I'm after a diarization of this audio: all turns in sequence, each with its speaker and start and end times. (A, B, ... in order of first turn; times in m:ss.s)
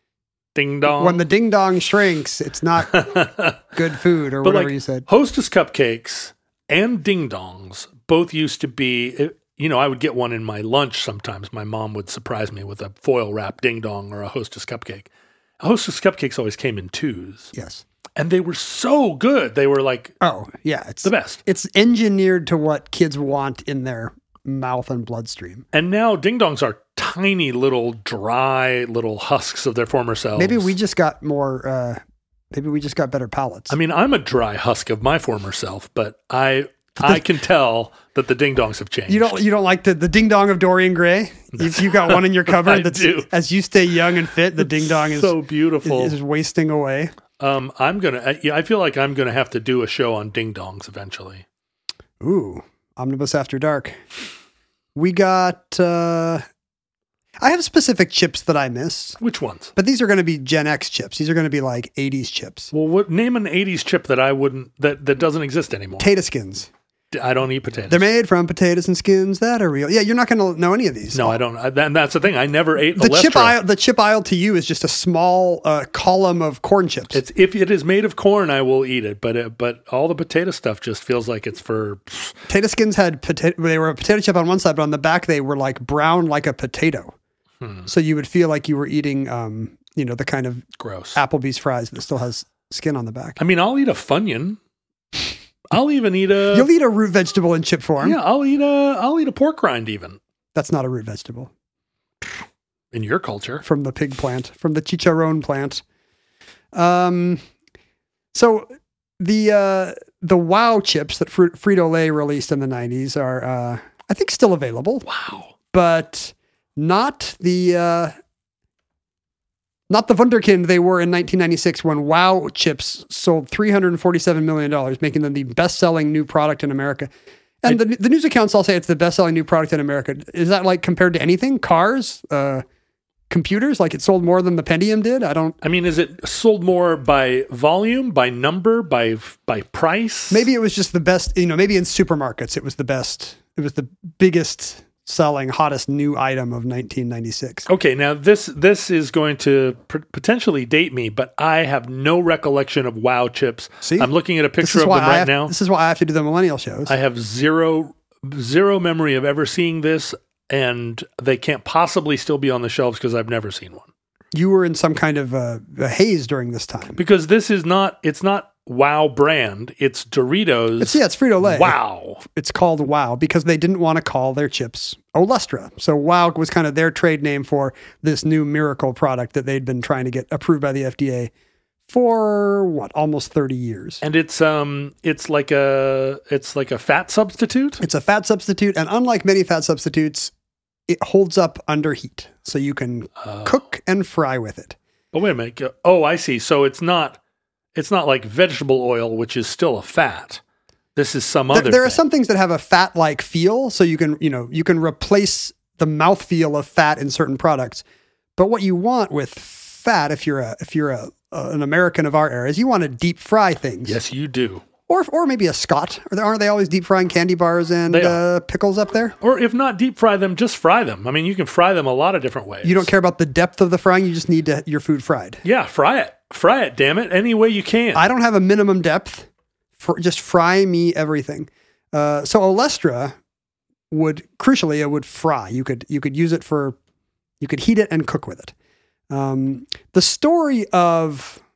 0:00.5-0:01.2 A
0:00.9-0:03.1 B
0:02.9-0:03.6 A
0:03.7-0:05.0 B
0:04.4-0:15.1 A
0:15.6-0:17.5 A
0:17.5-0:17.8 B
0:18.2-0:20.1 A
0:20.2-0:25.6 B
0:21.0-0:21.4 A
0:25.7-0:30.7 A
0:30.4-0:32.0 B
0:32.5-0:33.7 B
0:33.7-0:39.4 A
0:37.0-0:37.2 B
0:39.1-0:47.1 B
0:41.5-0:43.3 A
0:44.6-0:46.2 A
0:47.4-0:51.4 A
0:52.2-0:54.0 B
0:54.9-0:56.4 B
0:57.4-0:59.2 B
0:59.2-0:59.7 A
0:59.8-1:02.7 B
1:02.7-1:06.1 A
1:06.0-1:06.7 B
1:07.1-1:08.1 A
1:07.9-1:11.4 B
1:11.1-1:13.6 A
1:13.0-1:17.2 B
1:17.1-1:22.3 A
1:22.5-1:27.1 B
1:27.6-1:27.9 A
1:27.8-1:33.4 B
1:30.8-1:31.2 A
1:33.4-1:34.6 A
1:35.7-1:36.7 A
1:36.5-1:38.2 B
1:38.0-1:40.2 A
1:40.5-1:41.5 B
1:42.9-1:43.6 A
1:43.6-1:45.8 B
1:46.7-1:47.4 B
1:48.3-1:55.0 B
1:55.0-1:55.5 A
1:55.7-1:58.1 B
1:59.9-2:07.1 B
2:07.6-2:12.6 B
2:13.3-2:15.6 B
2:15.6-2:20.5 A
2:20.3-2:27.7 B
2:27.7-2:35.5 A
2:33.8-2:36.9 B
2:36.9-2:43.9 A
2:44.3-2:47.0 B
2:47.0-2:52.2 A
2:50.8-3:01.3 B
3:01.9-3:04.0 B
3:04.0-3:07.8 A
3:07.8-3:10.3 B
3:10.9-3:14.8 B
3:13.2-3:13.6 A
3:15.1-3:17.2 A
3:17.7-3:20.4 A
3:21.0-3:22.0 A
3:21.5-3:27.8 B
3:28.4-3:34.0 B
3:33.8-3:34.6 A
3:34.9-3:39.1 B
3:37.9-3:38.2 A
3:39.2-3:42.9 A
3:42.6-3:45.4 B
3:45.4-3:48.0 A
3:47.9-3:49.3 B
3:49.8-3:53.2 B
3:53.9-3:56.8 B
3:57.4-3:58.5 B
3:59.1-4:01.4 B